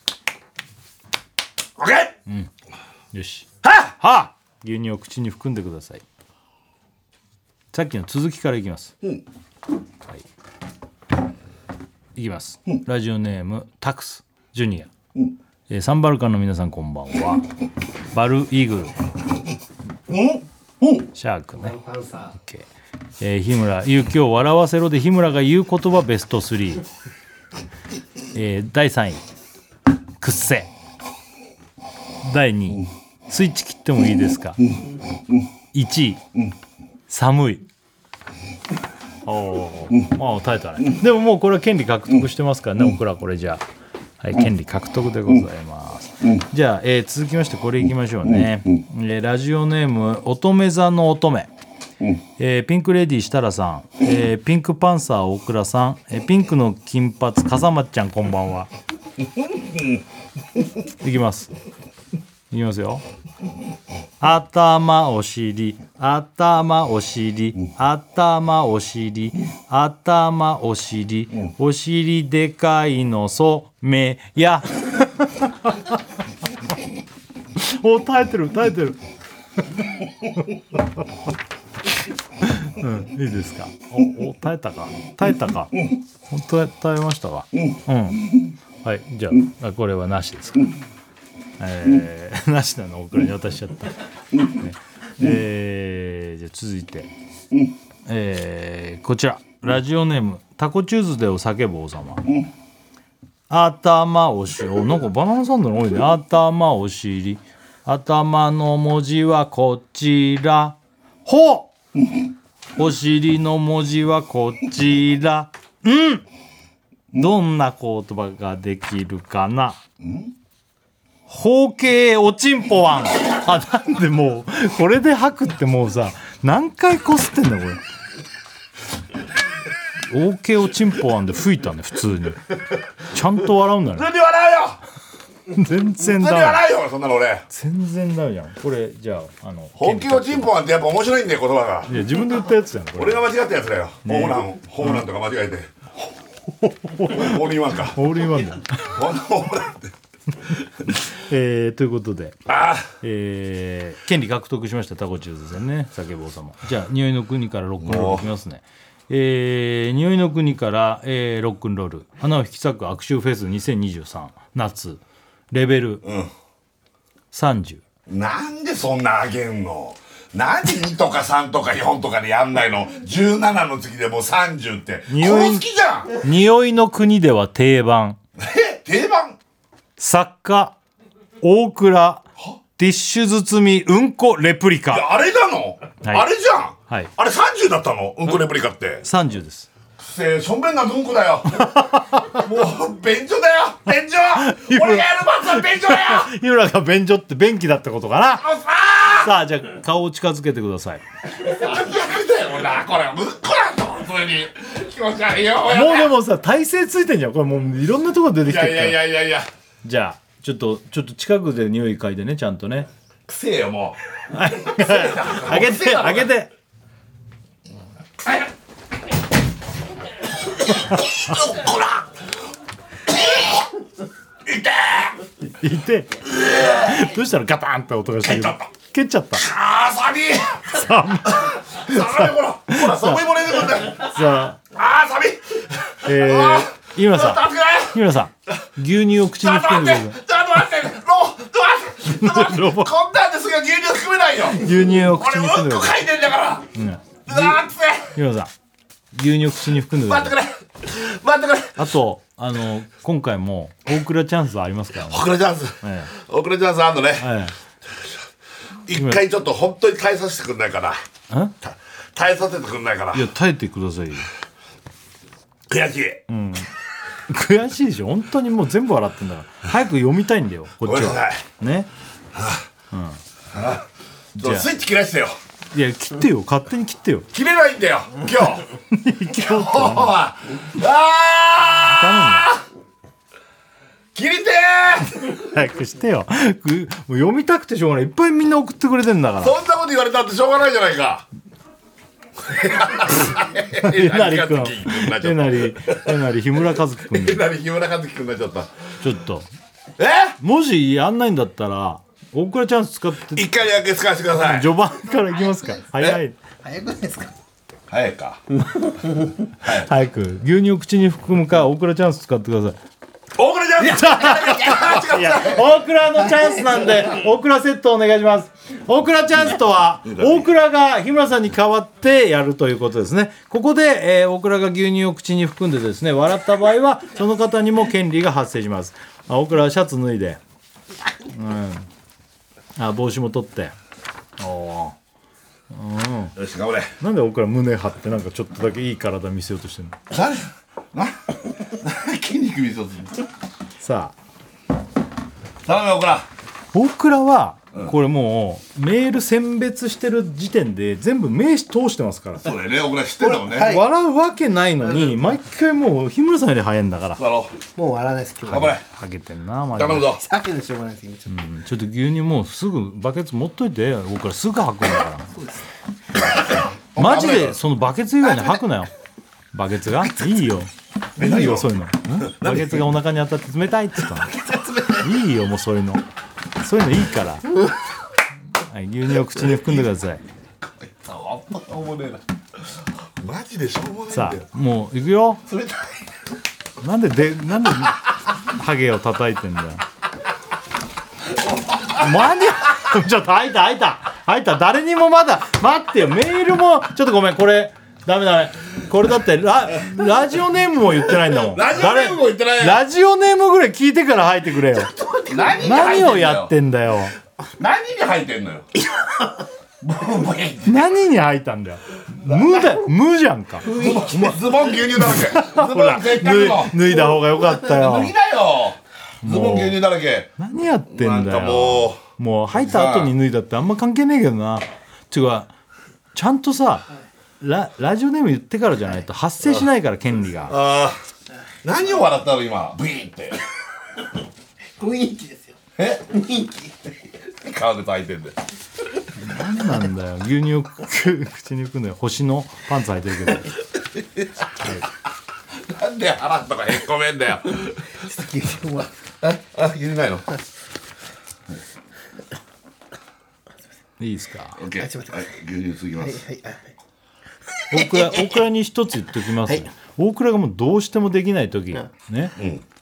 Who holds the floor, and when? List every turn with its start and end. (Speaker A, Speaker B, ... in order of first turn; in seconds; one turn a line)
Speaker A: 1.8-2.1
Speaker B: 3.1-6.0
Speaker A: 3.6-4.0
Speaker B: 7.7-8.9
Speaker B: 12.2-14.9
Speaker B: 15.7-17.4
Speaker B: 18.1-18.9
Speaker A: 20.1-21.1
Speaker B: 21.1-21.8
Speaker C: 21.6-22.3
Speaker B: 22.4-22.7
Speaker B: 23.2-26.9
Speaker B: 28.3-29.2
Speaker B: 30.2-30.7
Speaker B: 32.2-34.6
Speaker B: 35.7-36.2
Speaker B: 37.1-37.7
Speaker B: 39.2-43.6
Speaker B: 44.2-51.5
Speaker B: 52.4-58.7
Speaker A: 59.2-60.0
Speaker B: 61.0-61.5
Speaker B: 62.5-63.0
Speaker B: 64.2-76.0
Speaker B: 77.6-79.0
Speaker B: 82.4-90.7
Speaker B: 91.6-97.1
Speaker B: 98.1-102.3
Speaker B: 103.5-111.7
Speaker B: 112.8-116.2
Speaker B: 117.1-119.8
Speaker A: 120.0-120.3
Speaker B: 121.3-127.8
Speaker B: 130.1-132.5
Speaker B: 133.1-134.1
Speaker A: 133.9-134.8
Speaker B: 135.5-136.6
Speaker A: 136.0-137.4
Speaker B: 137.5-140.6
Speaker A: 139.8-142.1
Speaker B: 141.9-143.3
Speaker A: 143.0-146.1
Speaker B: 144.1-145.0
Speaker B: 146.6-148.9
Speaker A: 147.0-148.2
Speaker A: 148.7-149.9
Speaker A: 150.5-150.9
Speaker B: 151.0-152.4
Speaker A: 152.5-152.9
Speaker B: 153.0-166.0
Speaker A: 157.8-158.3
Speaker A: 166.0-166.3
Speaker B: 167.3-167.8
Speaker A: 168.1-176.1
Speaker B: 175.1-175.7
Speaker B: 176.2-178.2
Speaker A: 178.4-179.4
Speaker B: 180.0-180.8
Speaker B: 181.4-182.3
Speaker B: 182.8-185.1
Speaker A: 184.9-189.1
Speaker B: 186.0-186.3
Speaker B: 189.0-189.7
Speaker A: 190.0-196.3
Speaker B: 191.6-192.4
Speaker B: 194.4-198.5
Speaker A: 198.4-199.3
Speaker B: 199.1-201.0
Speaker A: 201.4-206.1
Speaker B: 205.7-209.1
Speaker A: 208.4-209.5
Speaker B: 209.8-212.9
Speaker A: 213.3-216.3
Speaker B: 214.3-216.5
Speaker A: 220.6-222.2
Speaker A: 223.1-223.7
Speaker A: 224.4-225.2
Speaker B: 225.6-229.5
Speaker A: 226.4-226.8
Speaker A: 228.2-228.7
Speaker A: 229.4-234.2
Speaker B: 230.7-233.3
Speaker B: 233.9-234.6
Speaker A: 234.7-238.5
Speaker B: 236.0-240.2
Speaker A: 239.4-246.7
Speaker B: 242.1-242.9
Speaker B: 244.6-246.0
Speaker B: 246.7-248.5
Speaker A: 247.3-248.2
Speaker B: 249.1-250.3
Speaker A: 250.0-251.8
Speaker B: 251.8-255.3
Speaker A: 255.0-257.3
Speaker B: 255.8-256.1
Speaker B: 257.2-257.5
Speaker A: 258.9-261.0
Speaker B: 258.9-259.2
Speaker B: 261.3-261.6
Speaker A: 261.6-263.3
Speaker B: 263.1-264.3
Speaker A: 265.7-266.2
Speaker B: 266.3-266.7
Speaker B: 267.3-271.9
Speaker A: 270.8-271.4
Speaker A: 272.3-272.6
Speaker B: 272.9-273.2
Speaker A: 273.5-275.4
Speaker B: 274.4-274.7
Speaker B: 275.7-277.3
Speaker A: 277.3-278.7
Speaker B: 278.9-280.2
Speaker A: 279.3-282.6
Speaker B: 281.9-282.5
Speaker A: 284.1-285.4
Speaker B: 285.4-289.6
Speaker A: 289.4-291.3
Speaker A: 292.4-296.2
Speaker B: 293.8-297.5
Speaker A: 297.0-298.7
Speaker B: 299.0-299.5
Speaker A: 300.0-300.4
Speaker B: 300.4-303.5
Speaker A: 303.3-304.7
Speaker B: 304.4-306.4
Speaker C: 305.5-305.8
Speaker C: 306.6-307.3
Speaker A: 307.9-308.4
Speaker A: 309.6-309.9
Speaker B: 309.6-312.8
Speaker A: 313.4-315.7
Speaker B: 313.8-330.4
Speaker A: 320.1-320.5
Speaker B: 331.3-331.9
Speaker B: 332.8-333.8
Speaker B: 334.4-335.0
Speaker B: 335.7-336.4
Speaker A: 336.4-336.9
Speaker B: 337.0-340.0
Speaker A: 340.1-343.3
Speaker B: 343.8-344.1
Speaker A: 345.6-346.3
Speaker B: 346.7-352.5
Speaker A: 352.4-353.8
Speaker C: 353.3-353.9
Speaker B: 353.5-357.2
Speaker A: 357.2-357.6
Speaker C: 357.8-358.8
Speaker A: 358.5-358.8
Speaker B: 358.6-360.1
Speaker A: 359.8-360.2
Speaker C: 360.2-361.3
Speaker B: 361.3-365.3
Speaker C: 365.3-365.7
Speaker A: 366.9-367.6
Speaker B: 367.0-368.9
Speaker B: 369.5-374.4
Speaker A: 371.2-372.9
Speaker C: 374.3-375.1
Speaker B: 375.0-376.0
Speaker B: 376.6-377.5
Speaker B: 378.6-380.2
Speaker A: 379.5-379.8
Speaker A: 380.6-382.2
Speaker A: 382.8-384.5
Speaker B: 384.1-385.4
Speaker A: 385.5-385.9
Speaker B: 386.8-389.8
Speaker A: 391.4-392.1
Speaker B: 391.9-404.9
Speaker A: 401.3-402.8
Speaker C: 404.8-405.8
Speaker A: 405.3-406.5
Speaker B: 405.6-407.1
Speaker A: 407.6-408.7
Speaker C: 408.9-409.4
Speaker A: 409.8-410.9
Speaker B: 410.6-414.3
Speaker A: 413.6-417.0
Speaker C: 413.6-414.4
Speaker B: 415.1-418.1
Speaker A: 417.6-420.3
Speaker B: 419.2-419.8
Speaker B: 420.4-425.5
Speaker A: 420.9-422.0
Speaker A: 422.5-423.1
Speaker B: 426.1-426.9
Speaker B: 427.4-430.6
Speaker A: 430.5-431.0
Speaker A: 431.6-433.4
Speaker C: 434.8-435.6
Speaker A: 435.8-436.2
Speaker C: 436.1-436.9
Speaker A: 437.4-438.4
Speaker B: 439.1-443.5
Speaker A: 445.6-447.9
Speaker C: 448.0-449.4
Speaker A: 449.4-450.3
Speaker B: 454.0-454.6
Speaker A: 454.6-456.2
Speaker C: 454.7-455.3
Speaker C: 456.0-456.7
Speaker B: 457.7-462.4
Speaker C: 457.7-458.2
Speaker A: 462.4-462.6